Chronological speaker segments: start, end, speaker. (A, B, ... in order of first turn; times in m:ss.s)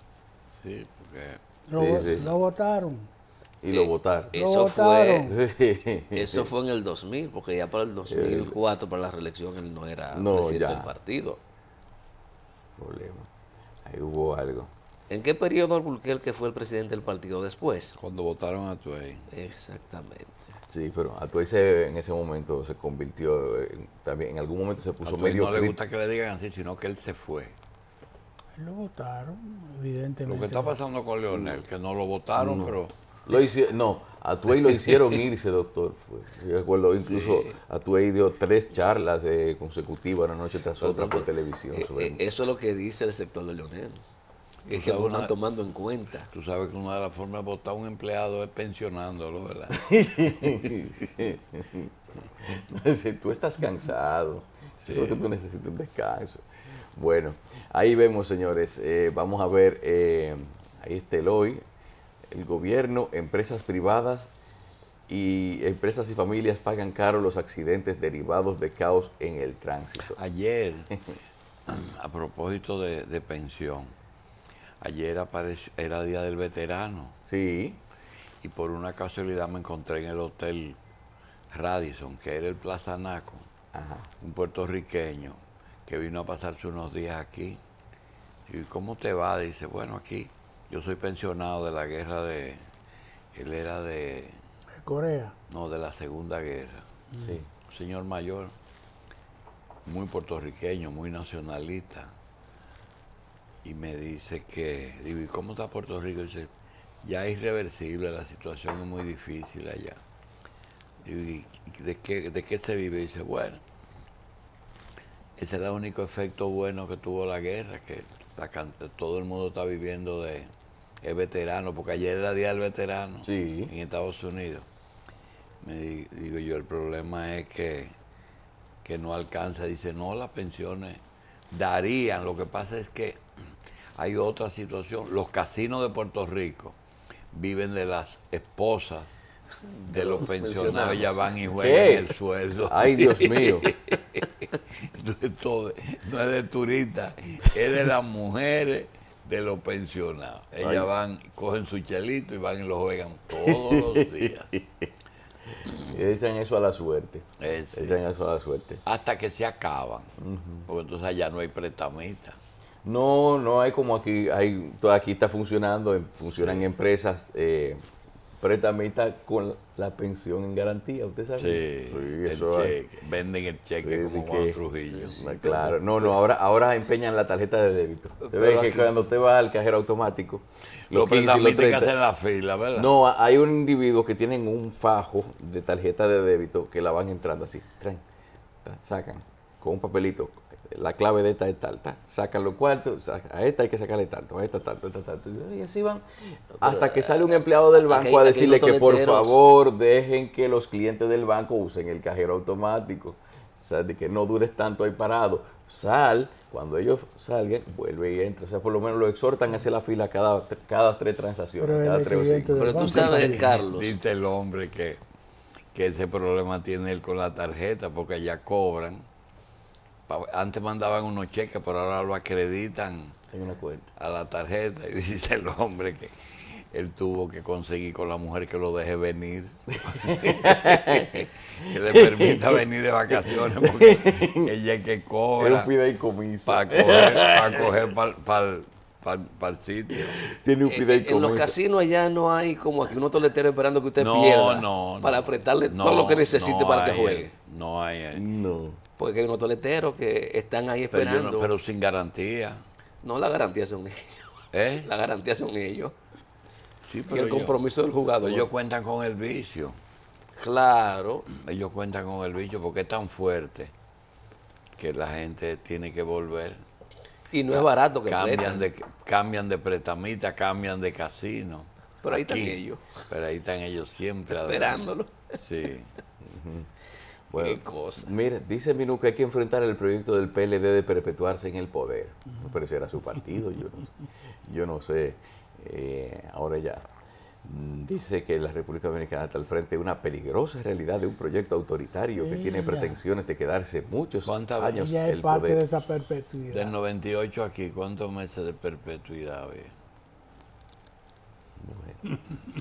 0:00.6-0:02.3 A
0:01.7-0:03.1 B
0:01.7-0:02.3 C
0:03.6-0:04.3 C
0:03.7-0:05.3 D
0:04.3-0:05.3 B
0:05.2-0:06.5 C
0:06.1-0:11.4 D
0:08.1-0:08.5 C
0:10.1-0:10.9 C
0:12.8-0:13.3 C
0:13.8-0:14.7 C
0:15.1-0:18.0 D
0:18.0-0:19.3 A
0:19.3-0:20.5 D
0:20.7-0:25.8 C
0:25.0-0:27.5 A
0:28.5-0:30.8 B
0:30.2-0:32.9 A
0:31.3-0:31.6 C
0:32.4-0:42.2 C
0:37.1-0:37.4 A
0:40.8-0:44.0 D
0:44.6-0:46.3 D
0:44.7-0:45.3 A
0:46.3-0:50.8 A
0:49.7-0:51.9 C
0:52.4-1:01.6 C
0:54.8-0:55.2 A
1:02.3-1:04.3 C
1:05.1-1:10.2 C
1:10.1-1:11.0 A
1:11.7-1:13.9 A
1:14.8-1:17.1 A
1:17.3-1:17.8 C
1:18.4-1:20.8 A
1:21.5-1:23.5 A
1:23.7-1:24.1 C
1:24.2-1:27.6 A
1:28.5-1:32.6 A
1:33.3-1:34.4 A
1:34.8-1:35.4 B
1:35.5-1:36.8 A
1:37.1-1:37.4 B
1:37.2-1:37.5 C
1:37.7-1:38.5 A
1:39.8-1:42.1 A
1:43.6-1:46.5 A
1:47.0-1:50.0 A
1:51.0-1:53.6 A
1:55.4-2:00.5 A
2:01.0-2:04.6 A
2:03.2-2:03.7 C
2:05.6-2:07.9 A
2:08.8-2:13.2 A
2:14.0-2:16.8 A
2:17.3-2:19.2 A
2:19.7-2:21.5 D
2:19.9-2:23.7 A
2:21.6-2:22.1 C
2:22.6-2:23.7 C
2:23.6-2:23.9 D
2:24.8-2:34.5 A
2:30.6-2:30.9 C
2:33.3-2:34.9 C
2:35.7-2:38.8 C
2:37.4-2:38.0 A
2:38.8-2:40.1 A
2:40.2-2:40.7 C
2:40.7-2:42.4 A
2:42.8-2:47.8 C
2:46.4-2:46.7 A
2:48.4-2:52.8 C
2:51.4-2:55.6 A
2:53.8-2:54.6 C
2:55.1-3:01.9 C
2:55.3-2:55.7 D
2:58.2-2:58.9 D
3:00.9-3:02.9 A
3:02.7-3:08.0 C
3:08.6-3:33.1 C
3:16.5-3:19.4 D
3:31.6-3:33.5 B
3:32.6-3:34.0 D
3:33.0-3:35.0 A
3:35.7-3:39.0 A
3:40.1-3:43.2 A
3:43.3-3:43.9 C
3:44.0-3:55.7 A
3:49.8-3:54.5 C
3:55.4-3:57.8 C
3:56.5-4:00.2 A
3:59.9-4:01.6 C
4:00.7-4:07.3 D
4:04.0-4:08.2 A
4:08.1-4:08.8 C
4:09.0-4:11.5 D
4:10.9-4:12.6 A
4:13.0-4:16.0 D
4:14.5-4:14.9 A
4:16.8-4:17.6 A
4:17.1-4:18.5 D
4:18.2-4:19.8 A
4:20.4-4:21.3 D
4:21.3-4:23.7 A
4:24.8-4:26.6 A
4:27.3-4:28.7 D
4:27.5-4:35.9 A
4:32.0-4:32.9 D
4:34.3-4:35.4 D
4:36.2-4:36.7 C
4:37.3-4:43.9 C
4:37.4-4:38.1 D
4:44.4-4:46.9 C
4:47.4-4:55.6 C
4:52.2-4:53.0 B
4:54.2-4:54.8 A
4:54.7-4:56.7 B
4:56.5-4:59.7 A
5:01.6-5:02.2 C